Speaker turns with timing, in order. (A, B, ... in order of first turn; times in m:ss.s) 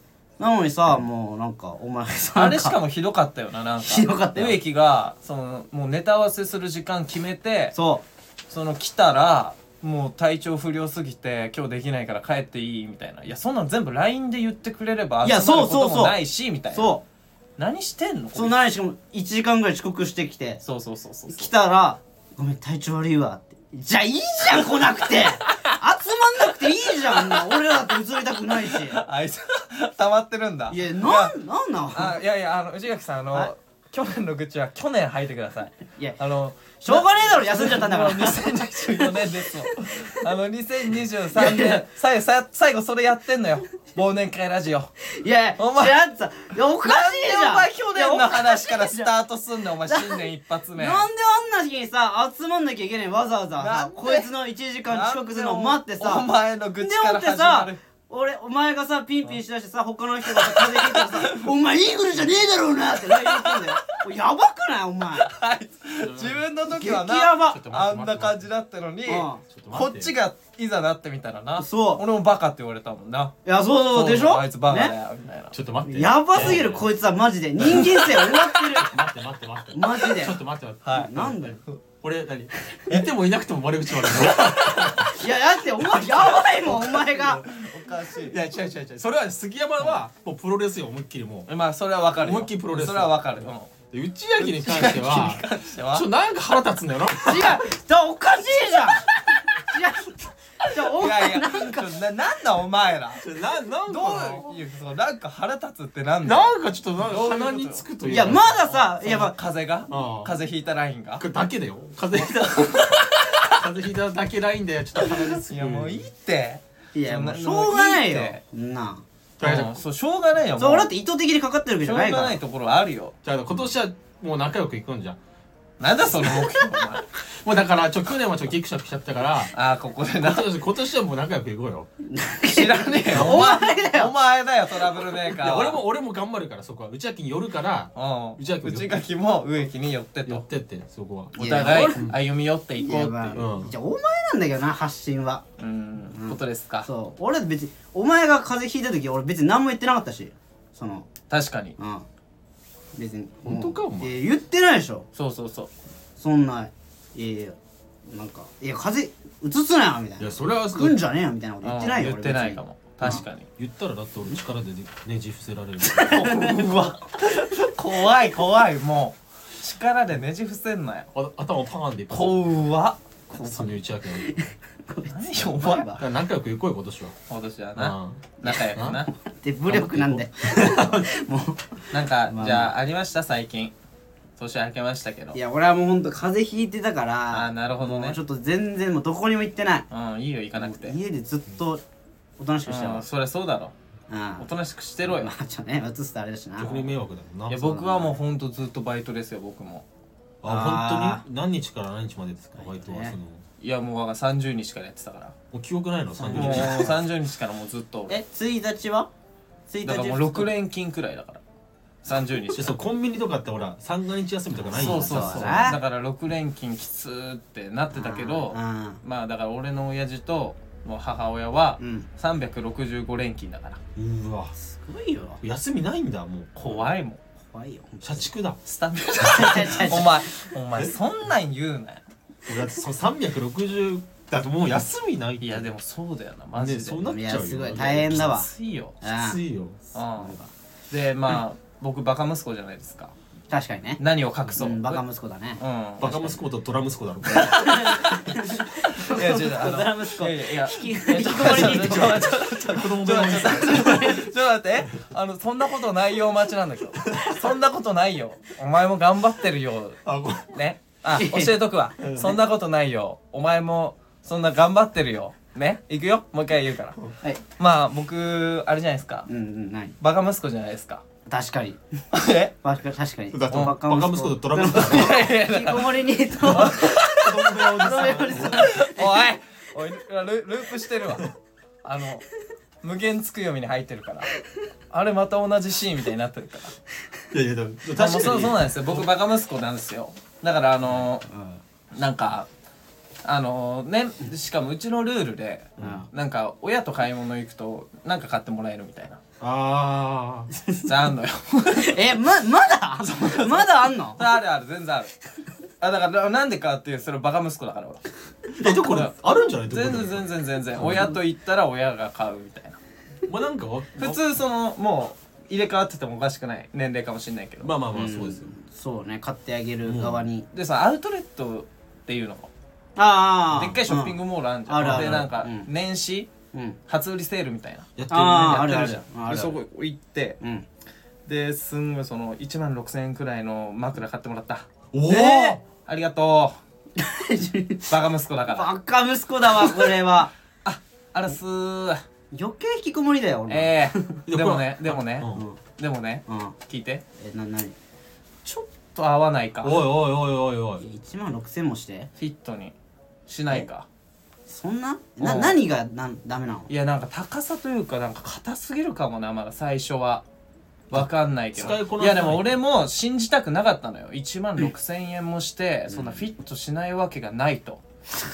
0:00.4-0:02.8 A
0:02.4-0:07.8 B
0:03.8-0:04.6 A
0:07.8-0:08.0 A
0:08.5-0:16.9 B
0:15.2-0:16.2 A
0:16.7-0:17.0 A
0:17.6-0:18.6 B
0:18.3-0:20.6 A
0:20.6-0:21.5 B
0:21.3-0:29.0 A
0:27.2-0:27.4 B
0:28.7-0:31.3 B
0:30.7-0:32.2 A
0:31.9-0:44.9 B
0:36.8-0:40.1 A
0:41.3-0:41.8 A
0:45.0-0:49.1 A
0:45.6-0:46.0 B
0:46.8-0:51.0 B
0:49.9-0:50.2 A
0:50.8-0:56.3 A
0:53.6-0:54.3 B
0:54.9-0:57.8 B
0:56.8-1:05.3 A
1:00.3-1:01.5 B
1:03.1-1:03.9 B
1:05.2-1:13.4 B
1:06.0-1:06.5 C
1:06.7-1:07.6 A
1:07.4-1:08.4 C
1:09.1-1:09.4 A
1:09.4-1:10.1 C
1:11.6-1:12.0 A
1:13.4-1:14.9 A
1:13.9-1:15.6 B
1:15.5-1:16.9 C
1:15.9-1:19.0 A
1:18.8-1:25.1 C
1:19.7-1:21.6 A
1:20.8-1:21.8 B
1:24.1-1:25.0 B
1:24.9-1:27.5 A
1:26.2-1:28.4 B
1:28.2-1:31.5 C
1:31.5-1:33.7 B
1:32.2-1:37.6 C
1:34.4-1:36.1 B
1:37.2-1:41.9 A
1:39.1-1:39.6 B
1:40.7-1:43.2 B
1:43.2-1:44.6 C
1:43.9-1:51.2 B
1:46.2-1:48.6 C
1:48.1-1:49.4 A
1:49.9-1:50.4 C
1:51.2-1:56.1 C
1:52.2-1:53.6 B
1:55.0-1:58.4 B
1:56.9-1:59.0 A
1:59.4-1:59.8 C
1:59.4-2:00.9 B
2:00.6-2:02.4 A
2:01.8-2:03.2 B
2:03.2-2:05.2 C
2:05.8-2:07.1 B
2:07.2-2:09.5 C
2:09.5-2:10.5 B
2:10.2-2:11.9 C
2:12.0-2:14.1 A
2:12.5-2:15.8 B
2:13.1-2:13.5 C
2:15.3-2:19.0 C
2:18.0-2:20.4 B
2:20.3-2:22.2 C
2:21.3-2:22.1 A
2:21.6-2:23.4 B
2:22.8-2:25.4 A
2:23.4-2:23.7 C
2:25.6-2:26.9 B
2:26.1-2:31.1 A
2:31.3-2:31.8 B
2:31.8-2:32.1 A
2:33.0-2:35.1 A
2:33.4-2:34.1 C
2:35.2-2:35.7 B
2:36.2-2:37.6 A
2:38.1-2:43.2 A
2:40.2-2:41.0 C
2:41.6-2:43.5 B
2:43.0-2:46.4 C
2:45.9-2:46.6 A
2:46.0-2:51.1 B
2:51.1-2:52.4 C
2:52.1-2:53.0 B
2:53.3-2:54.3 C
2:53.3-2:56.0 A
2:55.1-2:56.0 B
2:55.9-2:57.2 C
2:57.3-2:59.1 B
2:57.8-2:59.0 C
2:58.4-3:02.7 A
2:59.7-3:00.9 C
3:01.9-3:03.7 B
3:04.4-3:05.4 B
3:05.3-3:09.9 A
3:07.3-3:08.2 B
3:09.9-3:11.0 B
3:10.6-3:11.8 A
3:12.4-3:13.0 A
3:12.7-3:13.7 B
3:14.1-3:14.5 A
3:14.4-3:15.3 B
3:15.0-3:16.9 A
3:16.6-3:18.1 C
3:17.5-3:19.8 B
3:17.8-3:18.1 A
3:20.4-3:23.4 C
3:20.5-3:21.2 A
3:22.6-3:23.2 A
3:23.6-3:25.4 B
3:25.5-3:27.0 C
3:26.2-3:27.0 A
3:26.3-3:28.2 B
3:28.1-3:29.1 A
3:29.7-3:30.5 A
3:29.8-3:31.4 B
3:32.0-3:32.8 B
3:32.5-3:35.8 C
3:34.6-3:35.8 A
3:34.7-3:43.8 B
3:37.9-3:39.0 A
3:41.8-3:42.1 A
3:44.0-3:44.6 C
3:44.6-3:45.4 A
3:45.4-3:46.8 C
3:46.6-3:47.2 B
3:47.4-3:48.3 A
3:48.0-3:48.6 C
3:48.7-3:52.0 B
3:49.2-3:50.3 A
3:52.5-3:55.7 C
3:55.4-3:57.0 B
3:56.5-3:58.4 C
3:57.0-3:58.5 A
3:58.2-3:59.0 B
3:59.0-3:59.4 A
3:59.0-3:59.8 C
3:59.9-4:00.4 B
4:00.2-4:00.5 A
4:00.9-4:03.1 B
4:03.5-4:04.0 A
4:04.0-4:05.0 B
4:04.6-4:05.6 A
4:05.6-4:06.4 B
4:06.0-4:08.0 C
4:07.4-4:20.0 B
4:07.4-4:12.3 A
4:11.4-4:14.2 C
4:13.6-4:14.3 A
4:20.0-4:20.6 C
4:20.5-4:27.0 B
4:21.1-4:21.6 A
4:22.0-4:22.4 C
4:27.6-4:29.3 B
4:29.3-4:30.0 A
4:30.0-4:31.0 B
4:31.3-4:31.8 A
4:32.1-4:32.5 B
4:32.6-4:39.2 A
4:33.3-4:35.3 C
4:34.8-4:41.3 B
4:36.5-4:38.7 C
4:41.8-4:42.3 B
4:42.8-4:44.3 B
4:44.9-4:46.8 B
4:47.3-4:49.1 C
4:48.0-4:51.2 B
4:51.0-4:51.6 A
4:51.9-4:52.5 B
4:53.2-4:59.2 B
4:55.8-4:56.0 C
4:55.8-4:56.1 A
4:59.4-5:00.5 C
5:00.6-5:00.9 A
5:00.8-5:02.0 B
5:01.8-5:04.2 A
5:03.0-5:05.1 B
5:05.8-5:08.0 B
5:08.6-5:11.2 C
5:08.7-5:09.1 B
5:09.6-5:12.8 B
5:13.3-5:14.2 C
5:14.0-5:17.7 B
5:17.6-5:18.5 C
5:17.9-5:20.5 A
5:19.8-5:20.2 C
5:20.5-5:22.5 B
5:23.0-5:25.7 A
5:23.5-5:26.3 B
5:24.8-5:25.3 C
5:26.5-5:26.8 A
5:26.9-5:30.4 B
5:28.0-5:28.7 C
5:28.1-5:29.6 A
5:30.4-5:30.7 A
5:31.3-5:34.7 B
5:34.9-5:35.6 C
5:35.1-5:35.6 A
5:35.8-5:36.6 B
5:37.0-5:37.9 A
5:37.9-5:38.7 B
5:38.5-5:40.3 A
5:40.6-5:42.0 B
5:42.3-5:44.2 A
5:43.5-5:47.0 B
5:44.3-5:45.4 C
5:46.3-5:46.6 A
5:47.2-5:47.8 A
5:48.4-5:49.8 B
5:49.6-5:50.8 C
5:50.8-5:52.1 A
5:52.2-5:52.7 B
5:53.3-5:53.9 B
5:54.5-5:56.7 A
5:55.2-5:55.6 B
5:56.7-6:00.2 B
6:00.9-6:07.8 B
6:00.9-6:02.6 C
6:05.9-6:06.3 A